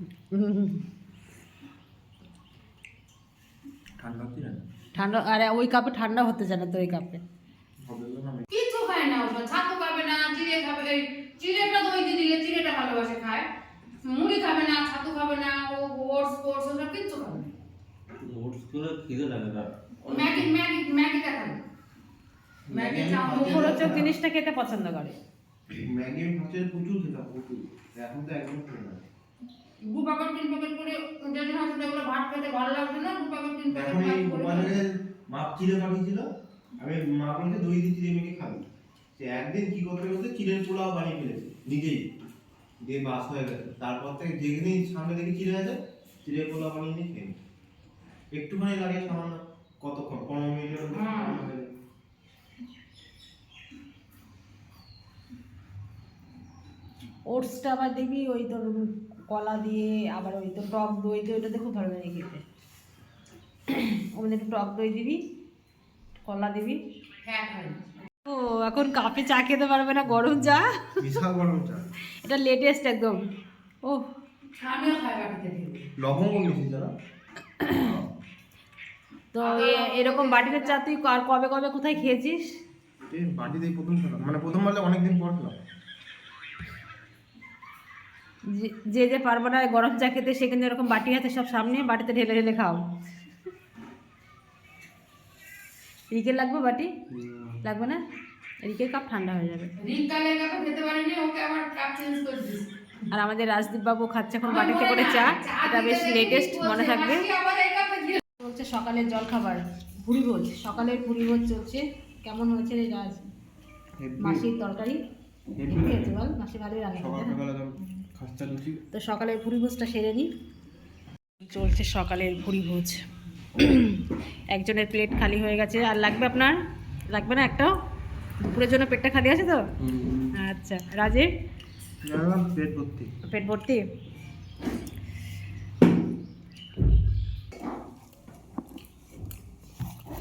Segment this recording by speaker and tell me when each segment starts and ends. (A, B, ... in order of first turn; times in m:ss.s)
0:00.3-0:00.8 A
0:04.0-0:04.6 B
0:04.9-0:07.2 A
0:07.8-0:08.5 B
0:08.5-0:13.5 C
0:14.0-0:17.5 C
0:18.2-0:20.6 D
0:20.1-0:21.6 C
0:22.7-0:24.1 B
0:22.7-0:23.7 C
0:23.3-0:25.2 A
0:25.7-0:29.0 B
0:29.8-0:34.8 C
0:33.7-0:36.2 B
0:36.8-0:38.6 B
0:39.2-0:42.1 B
0:42.8-0:47.3 B
0:48.3-0:51.6 B
0:50.9-0:51.5 C
0:57.3-1:02.4 A
1:03.7-1:05.2 A
1:06.2-1:06.8 A
1:07.2-1:07.9 C
1:08.2-1:10.7 A
1:11.0-1:11.9 B
1:12.2-1:13.2 A
1:14.4-1:15.9 C
1:16.0-1:16.9 B
1:17.7-1:18.0 B
1:19.3-1:22.5 A
1:19.4-1:20.8 C
1:23.1-1:25.6 B
1:28.5-1:32.8 A
1:36.1-1:36.9 A
1:37.2-1:37.5 B
1:37.6-1:38.0 A
1:38.6-1:39.7 A
1:39.8-1:43.0 C
1:43.1-1:47.2 A
1:44.4-1:48.2 C
1:48.4-1:53.2 A
1:54.0-1:54.4 B
1:54.2-1:55.0 A
1:55.6-1:56.2 B
1:55.7-1:57.4 A
1:56.9-1:58.8 B
1:58.9-2:00.3 A
2:01.4-2:03.0 A
2:03.6-2:04.0 A
2:04.5-2:06.6 A
2:07.1-2:07.7 A
2:08.4-2:09.6 A
2:09.8-2:10.2 D
2:10.4-2:11.3 A
2:12.0-2:13.1 B
2:13.3-2:13.8 A